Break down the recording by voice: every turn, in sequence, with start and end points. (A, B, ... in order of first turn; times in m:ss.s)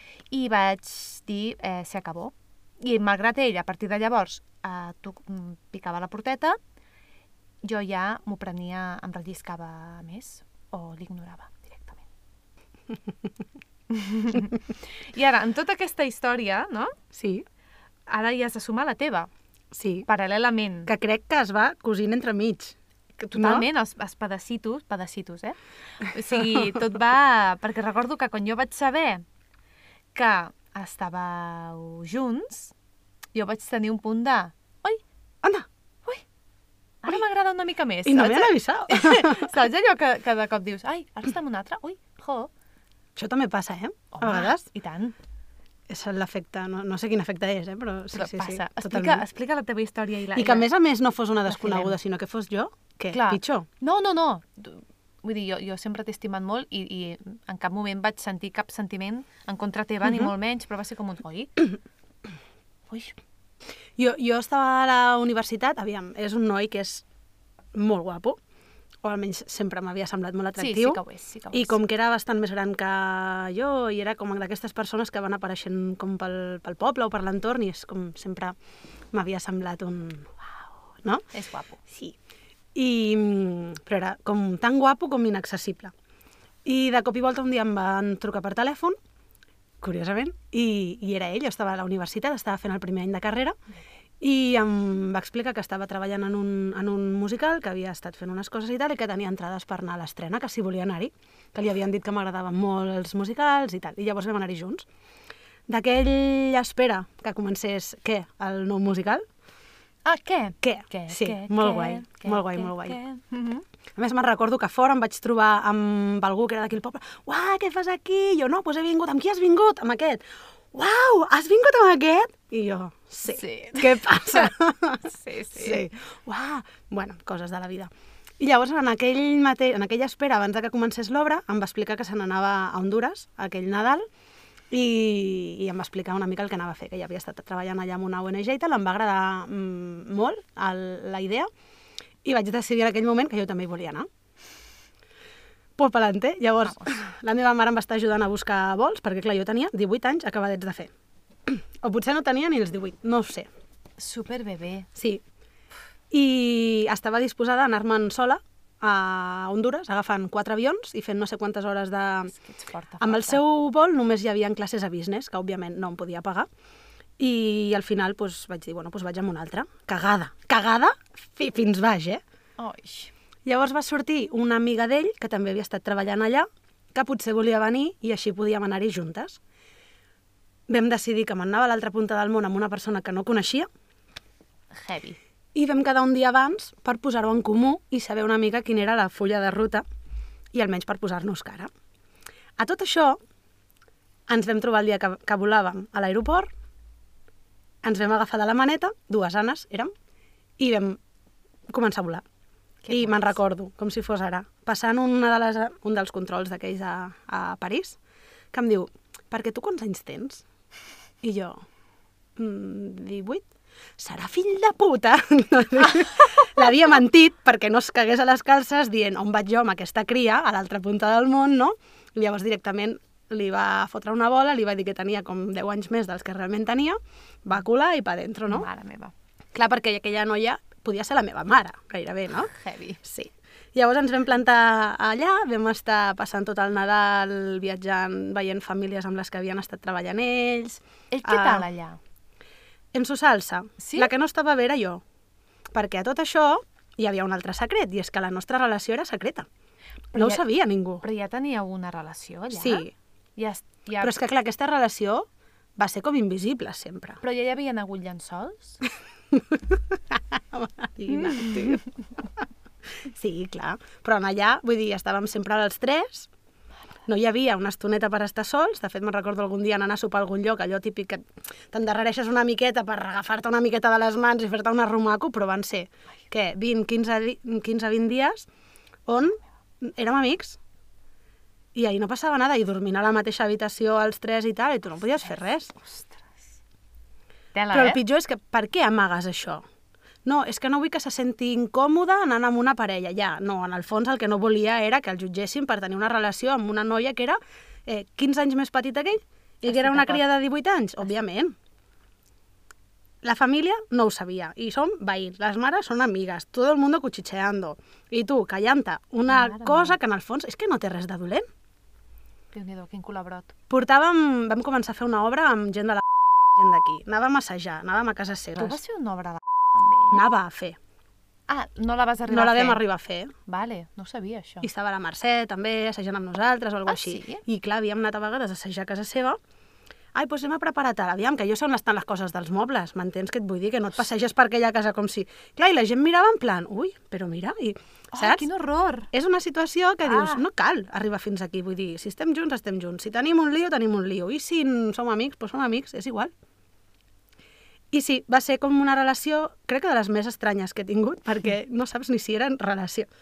0:00.3-0:06.6 A
0:07.6-0:12.0 A
0:13.9-0:17.0 A
0:17.1-0:17.4 B
0:18.1-0:19.3 A
0:19.7-0:20.1 B
0:20.0-0:20.9 A
0:20.9-0:23.7 B
0:23.3-0:29.2 A
0:30.2-0:32.7 A
0:33.3-0:35.0 A
0:37.0-0:42.5 A
0:38.0-0:39.5 B
0:43.2-0:44.6 B
0:44.1-0:45.2 A
0:45.9-0:49.2 B
0:48.1-0:50.7 A
0:50.4-0:53.7 B
0:51.5-0:52.0 A
0:53.1-1:01.7 A
1:04.0-1:07.0 B
1:07.7-1:08.4 B
1:09.0-1:11.0 B
1:10.6-1:11.8 A
1:11.5-1:18.6 B
1:19.1-1:20.3 B
1:21.3-1:21.8 A
1:21.9-1:22.2 B
1:22.8-1:25.9 B
1:26.6-1:29.0 B
1:29.8-1:33.6 B
1:34.2-1:44.9 B
1:45.7-1:49.2 B
1:50.0-1:53.6 A
1:50.6-1:53.0 B
1:54.0-2:14.0 B
2:03.3-2:04.5 A
2:05.1-2:05.8 A
2:14.7-2:21.5 B
2:22.2-2:24.1 B
2:25.8-2:30.9 B
2:31.5-2:33.5 B
2:34.0-2:34.9 A
2:35.0-2:35.2 B
2:36.1-2:42.3 B
2:42.3-2:43.4 A
2:43.0-2:46.5 B
2:47.2-2:52.2 B
2:52.6-2:53.1 A
2:53.5-2:59.4 B
3:00.7-3:03.7 B
3:04.7-3:05.2 A
3:05.6-3:09.8 B
3:10.5-3:11.7 B
3:12.6-3:13.2 B
3:14.3-3:16.5 B
3:17.8-3:19.9 B
3:20.6-3:21.0 B
3:21.7-3:22.2 B
3:22.8-3:23.4 A
3:22.9-3:28.0 B
3:28.5-3:30.4 B
3:31.2-3:31.6 B
3:32.4-3:33.5 B
3:34.0-3:48.7 B
3:48.5-3:49.1 A
3:49.5-3:52.5 B
3:52.5-3:53.0 A
3:53.0-4:01.7 B
4:01.1-4:02.0 A
4:02.9-4:05.0 B
4:03.8-4:04.1 A
4:05.7-4:09.5 B
4:10.1-4:10.4 A
4:10.1-4:11.0 B
4:11.0-4:14.2 A
4:12.5-4:12.9 B
4:14.0-4:17.2 B
4:17.2-4:18.8 A
4:19.3-4:21.8 B
4:21.2-4:21.8 A
4:23.0-4:26.3 B
4:27.1-4:38.5 B
4:39.1-4:40.6 B
4:41.8-4:45.8 B
4:45.8-4:46.4 A
4:47.5-4:48.0 A
4:47.7-4:49.6 B
4:50.2-5:01.6 B
4:59.6-5:00.3 A
5:03.2-5:11.5 B
5:09.3-5:10.0 A
5:12.5-5:13.6 A
5:13.7-5:18.8 B
5:18.6-5:20.3 A
5:20.1-5:20.8 B
5:21.5-5:22.8 A
5:22.3-5:23.3 B
5:23.5-5:24.7 A
5:24.6-5:29.4 B
5:26.9-5:27.4 A
5:30.1-5:38.5 B
5:38.1-5:39.1 A
5:39.1-5:46.3 B
5:40.0-5:40.4 A
5:47.9-5:53.1 B